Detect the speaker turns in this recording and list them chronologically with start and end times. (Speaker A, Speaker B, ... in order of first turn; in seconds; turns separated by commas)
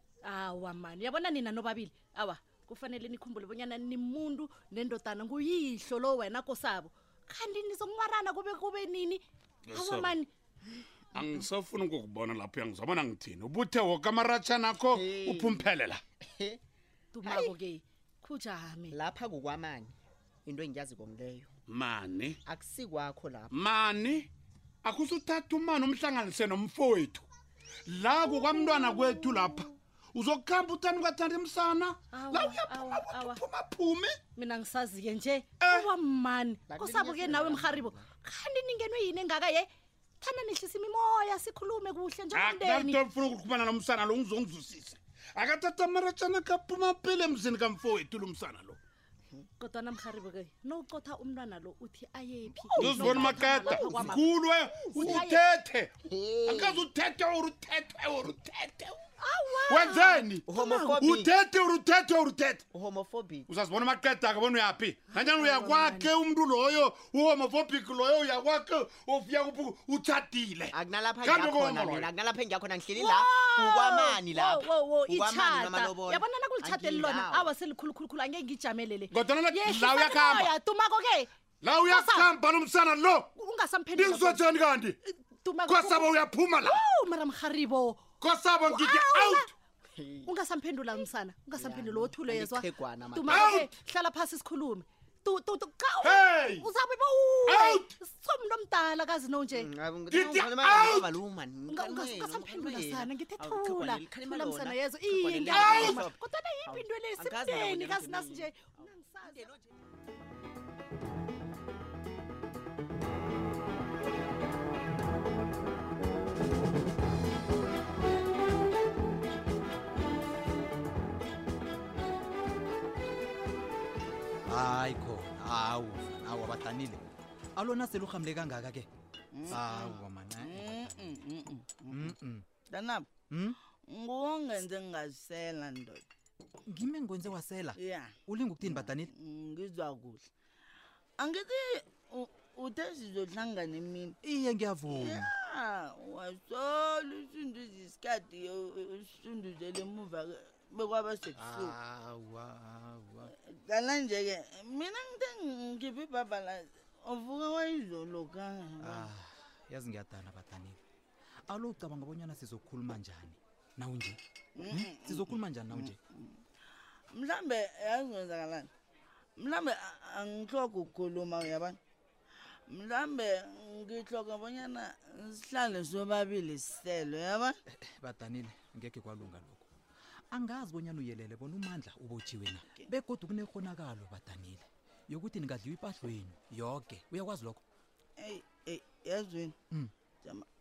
Speaker A: 0.2-10.3, Speaker B: 9.7-10.1, Speaker B: 11.1-16.0, Speaker A: 11.2-11.4, Speaker C: 14.9-16.6, Speaker A: 17.1-18.9, Speaker C: 17.2-17.6, Speaker C: 18.9-19.9, Speaker C: 20.4-21.5, Speaker B: 21.7-22.4, Speaker C: 22.4-23.5, Speaker B: 23.5-24.3, Speaker B: 24.8-27.2, Speaker B: 27.9-34.2, Speaker A: 28.5-29.0, Speaker A: 32.1-33.4, Speaker A: 34.4-39.7, Speaker B: 35.6-35.9, Speaker C: 36.7-38.1, Speaker A: 40.2-43.0, Speaker B: 42.3-48.8, Speaker A: 49.6-55.4, Speaker B: 52.8-55.9, Speaker C: 56.0-56.9, Speaker B: 56.4-59.0, Speaker A: 59.2-61.0, Speaker B: 59.6-62.6, Speaker C: 60.4-61.3, Speaker C: 62.7-63.5, Speaker B: 63.5-72.1, Speaker A: 65.1-66.1, Speaker C: 70.7-77.5, Speaker A: 72.9-81.3, Speaker B: 79.1-80.5, Speaker B: 81.6-83.3, Speaker A: 81.8-82.3, Speaker A: 83.3-84.5, Speaker B: 83.9-85.0, Speaker A: 85.1-88.0, Speaker B: 85.7-86.8, Speaker B: 88.2-89.5, Speaker A: 88.7-89.5, Speaker C: 89.9-90.4, Speaker A: 90.2-99.7, Speaker C: 91.5-93.7, Speaker B: 93.3-93.7, Speaker B: 96.0-96.7, Speaker B: 97.5-97.9, Speaker C: 99.5-109.7, Speaker B: 100.1-101.2, Speaker A: 101.7-109.4, Speaker B: 105.5-106.0, Speaker D: 124.5-127.0, Speaker D: 127.6-128.9, Speaker E: 129.3-132.1, Speaker D: 129.5-131.2, Speaker D: 131.9-132.4, Speaker E: 132.7-133.1, Speaker D: 133.3-133.6, Speaker E: 133.9-136.0, Speaker D: 136.7-139.1, Speaker E: 137.8-140.2, Speaker E: 141.2-144.2, Speaker D: 144.2-145.3, Speaker E: 144.9-151.8, Speaker D: 151.3-153.3, Speaker E: 153.7-159.1, Speaker D: 158.8-160.8, Speaker D: 161.5-166.0, Speaker E: 164.6-166.3, Speaker E: 167.1-168.7, Speaker E: 169.4-171.8, Speaker E: 172.7-177.6, Speaker D: 177.7-179.7, Speaker D: 180.3-187.6, Speaker E: 188.2-189.6